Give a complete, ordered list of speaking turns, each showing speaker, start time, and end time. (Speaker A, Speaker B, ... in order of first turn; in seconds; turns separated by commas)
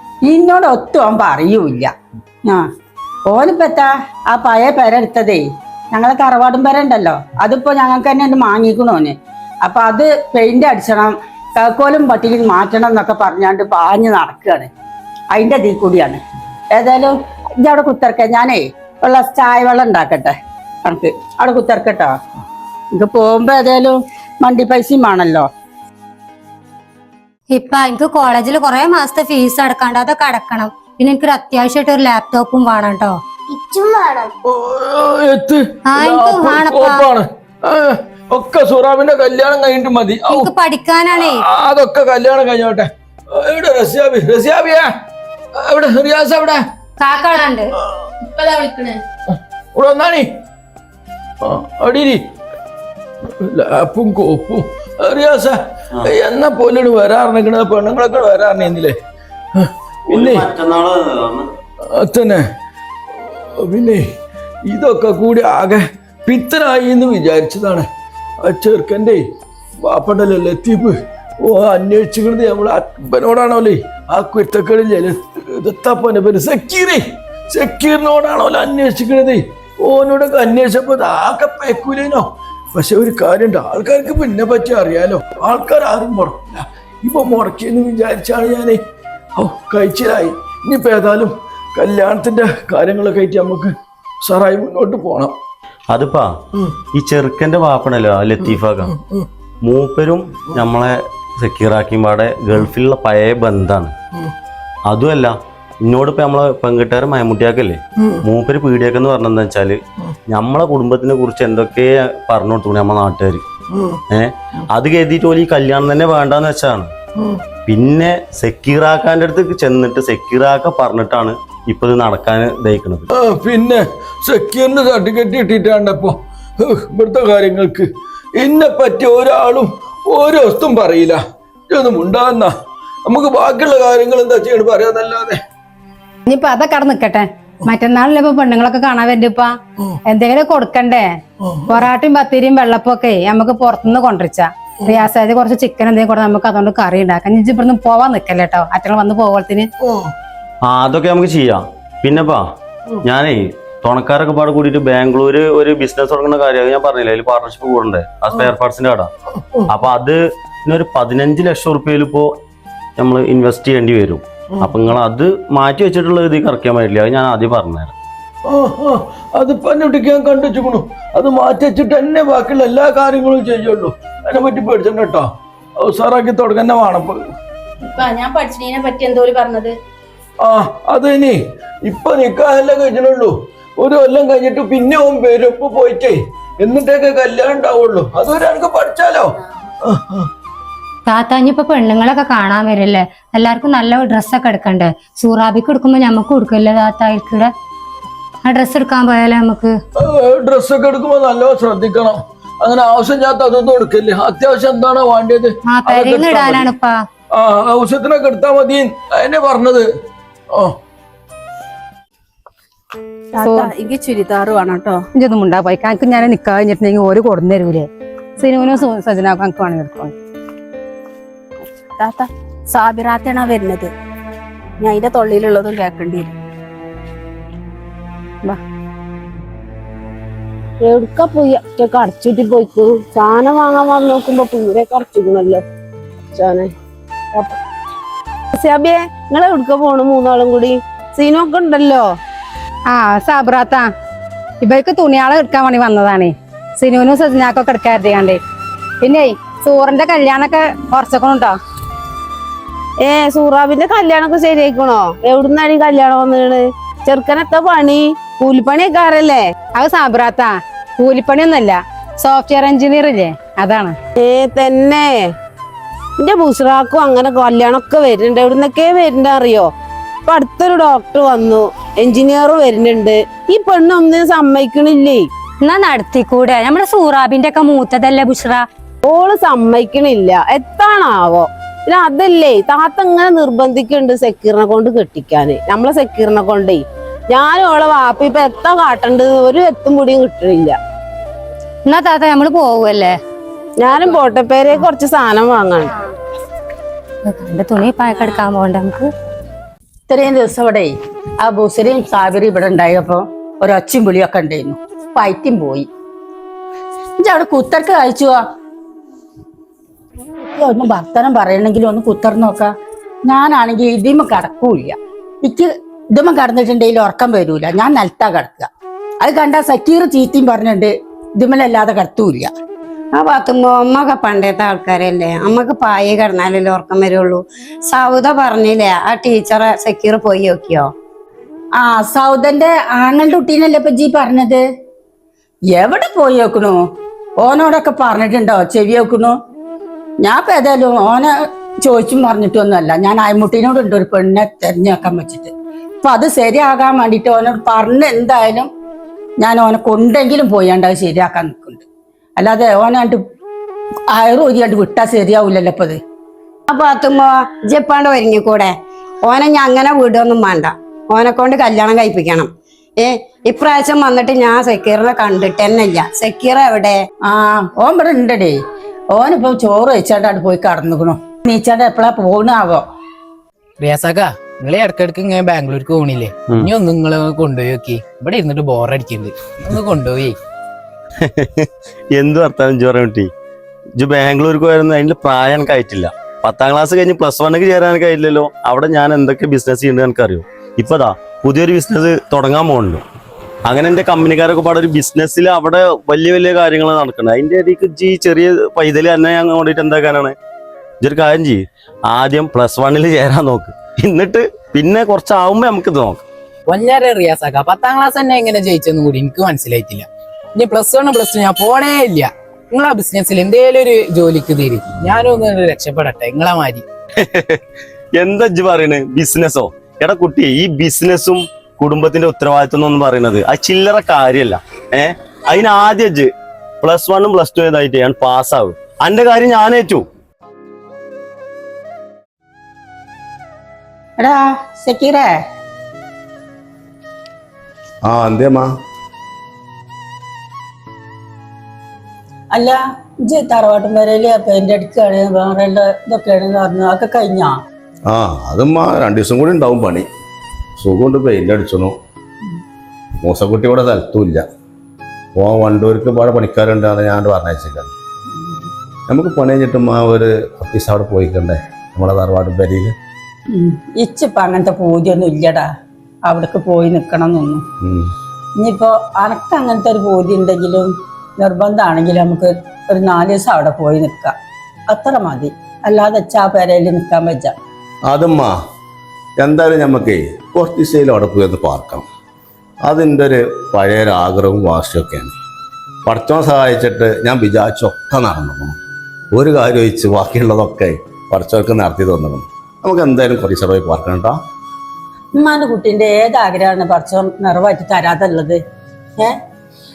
Speaker A: 0.2-1.9, Speaker A: 3.3-14.7, Speaker A: 15.3-16.2, Speaker A: 16.7-22.1, Speaker A: 22.9-25.5, Speaker B: 27.5-33.2, Speaker C: 33.6-34.3, Speaker D: 34.5-40.5, Speaker B: 35.9-37.1, Speaker B: 40.2-41.4, Speaker D: 41.1-44.9, Speaker D: 45.6-46.6, Speaker B: 47.0-47.7, Speaker E: 48.2-49.0, Speaker D: 49.7-50.3, Speaker D: 51.4-52.2, Speaker D: 53.4-59.0, Speaker D: 59.5-60.5, Speaker F: 60.1-61.5, Speaker D: 61.9-62.5, Speaker D: 63.6-64.1, Speaker D: 64.7-67.9, Speaker D: 68.4-69.2, Speaker D: 69.8-88.8, Speaker D: 89.3-95.3, Speaker F: 95.9-96.3, Speaker F: 96.9-98.9, Speaker D: 98.9-99.2, Speaker F: 99.6-103.9, Speaker F: 104.9-113.4, Speaker D: 113.7-114.0, Speaker F: 114.1-116.9, Speaker F: 117.7-123.1, Speaker D: 123.1-127.9, Speaker D: 128.4-135.4, Speaker G: 136.3-139.6, Speaker G: 140.1-141.1, Speaker G: 141.7-149.7, Speaker F: 150.6-152.5, Speaker F: 153.0-159.1, Speaker F: 159.7-162.3, Speaker F: 163.0-167.9, Speaker D: 168.5-177.2, Speaker E: 177.9-179.8, Speaker D: 180.4-189.3, Speaker D: 189.8-190.3, Speaker B: 191.1-197.5, Speaker B: 198.4-199.8, Speaker D: 200.0-206.7, Speaker B: 205.6-207.0, Speaker D: 207.3-209.9, Speaker G: 213.4-213.7, Speaker E: 213.4-215.0, Speaker G: 215.1-220.1, Speaker E: 222.7-223.9, Speaker E: 224.8-226.3, Speaker H: 230.8-235.6, Speaker H: 236.3-236.7, Speaker H: 238.5-242.1, Speaker G: 242.9-243.9, Speaker G: 244.6-248.4, Speaker G: 249.0-251.6, Speaker H: 253.0-259.4, Speaker G: 259.8-264.0, Speaker H: 264.2-265.3, Speaker H: 266.2-269.7, Speaker H: 270.3-275.3, Speaker B: 275.6-278.6, Speaker H: 279.0-290.8, Speaker B: 291.9-293.2, Speaker H: 293.8-295.9, Speaker B: 297.2-299.1, Speaker A: 300.1-305.9, Speaker A: 307.2-308.4, Speaker A: 310.4-312.7, Speaker A: 313.2-318.7, Speaker A: 319.2-322.5, Speaker C: 323.1-330.9, Speaker A: 331.8-334.6, Speaker A: 335.7-336.8, Speaker A: 337.4-339.4, Speaker A: 340.2-348.7, Speaker A: 349.4-351.8, Speaker A: 352.4-353.2, Speaker A: 354.1-356.0, Speaker C: 356.7-367.0, Speaker A: 367.2-368.6, Speaker A: 369.1-372.8, Speaker I: 373.8-380.4, Speaker F: 381.2-383.3, Speaker F: 384.0-393.0, Speaker F: 393.6-400.3, Speaker F: 401.0-406.2, Speaker I: 406.7-416.8, Speaker F: 417.2-417.6, Speaker F: 418.2-426.3, Speaker F: 426.8-430.0, Speaker A: 434.2-435.4, Speaker J: 438.0-438.7, Speaker A: 442.5-447.6, Speaker J: 448.1-450.1, Speaker J: 450.8-451.9, Speaker J: 453.2-454.4, Speaker J: 455.4-457.9, Speaker J: 459.1-462.9, Speaker A: 463.5-465.7, Speaker A: 466.3-467.6, Speaker J: 467.8-468.1, Speaker A: 468.6-474.3, Speaker A: 474.9-477.5, Speaker J: 478.1-478.6, Speaker J: 479.4-482.1, Speaker J: 482.8-485.4, Speaker J: 486.1-488.8, Speaker J: 489.3-494.4, Speaker A: 495.4-498.6